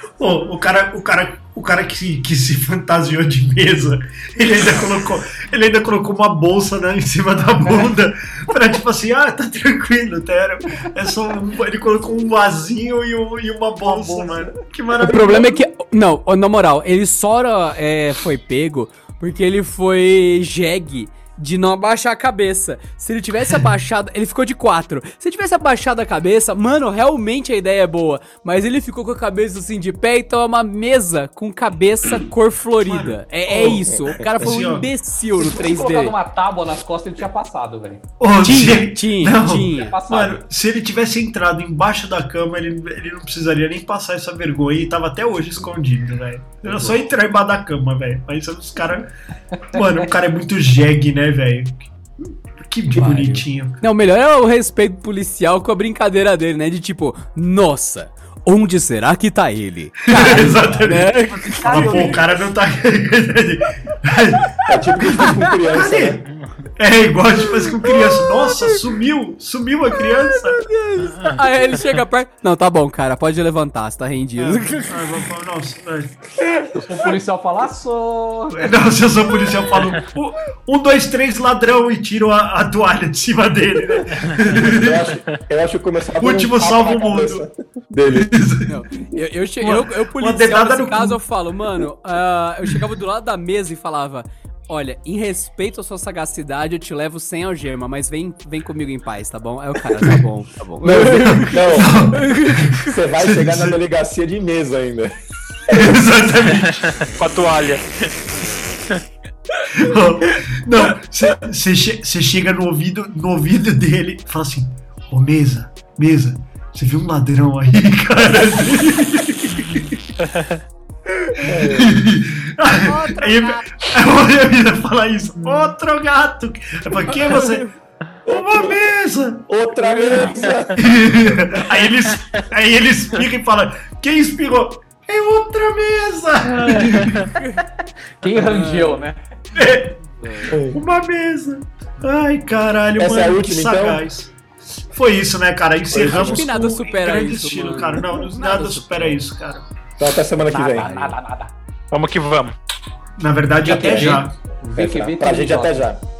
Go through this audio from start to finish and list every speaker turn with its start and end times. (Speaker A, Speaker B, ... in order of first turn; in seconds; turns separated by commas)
Speaker A: 0.2-15.6, Speaker B: 13.8-14.6, Speaker C: 15.0-36.1, Speaker A: 32.8-33.8, Speaker D: 33.5-34.6, Speaker A: 34.4-34.9, Speaker B: 35.3-38.0, Speaker A: 38.2-49.1, Speaker C: 38.4-40.0, Speaker B: 39.7-40.4, Speaker B: 49.5-49.9, Speaker A: 49.7-51.8, Speaker A: 52.6-53.8, Speaker C: 52.9-62.2, Speaker A: 60.1-66.2, Speaker B: 61.5-62.4, Speaker D: 64.7-66.2, Speaker C: 65.0-65.3, Speaker A: 66.8-70.7, Speaker C: 67.5-68.8, Speaker C: 69.9-75.2, Speaker A: 74.4-76.3, Speaker B: 76.7-78.8, Speaker A: 78.5-85.2, Speaker D: 84.5-88.3, Speaker A: 86.2-87.4, Speaker A: 88.1-88.7, Speaker C: 88.7-103.0, Speaker A: 89.6-91.2, Speaker D: 100.8-102.1, Speaker A: 100.9-103.8, Speaker D: 102.8-105.1, Speaker D: 105.7-106.0, Speaker A: 105.7-107.0, Speaker E: 106.7-108.1, Speaker A: 109.7-120.0, Speaker E: 120.3-120.6, Speaker A: 121.2-127.6, Speaker D: 121.4-122.0, Speaker C: 122.8-123.7, Speaker C: 127.3-127.7, Speaker D: 128.2-128.8, Speaker A: 128.3-129.5, Speaker D: 129.5-131.3, Speaker A: 130.8-137.3, Speaker E: 136.7-137.2, Speaker C: 137.3-137.6, Speaker B: 137.8-139.2, Speaker C: 138.3-139.0, Speaker A: 139.5-144.3, Speaker C: 140.2-140.5, Speaker D: 140.5-140.8, Speaker D: 143.0-144.0, Speaker A: 144.9-149.7, Speaker D: 145.9-146.5, Speaker C: 146.0-149.3, Speaker D: 150.0-150.9, Speaker B: 150.5-151.5, Speaker C: 150.7-151.2, Speaker E: 151.9-152.5, Speaker A: 153.2-154.3, Speaker D: 153.6-156.0, Speaker B: 153.7-155.8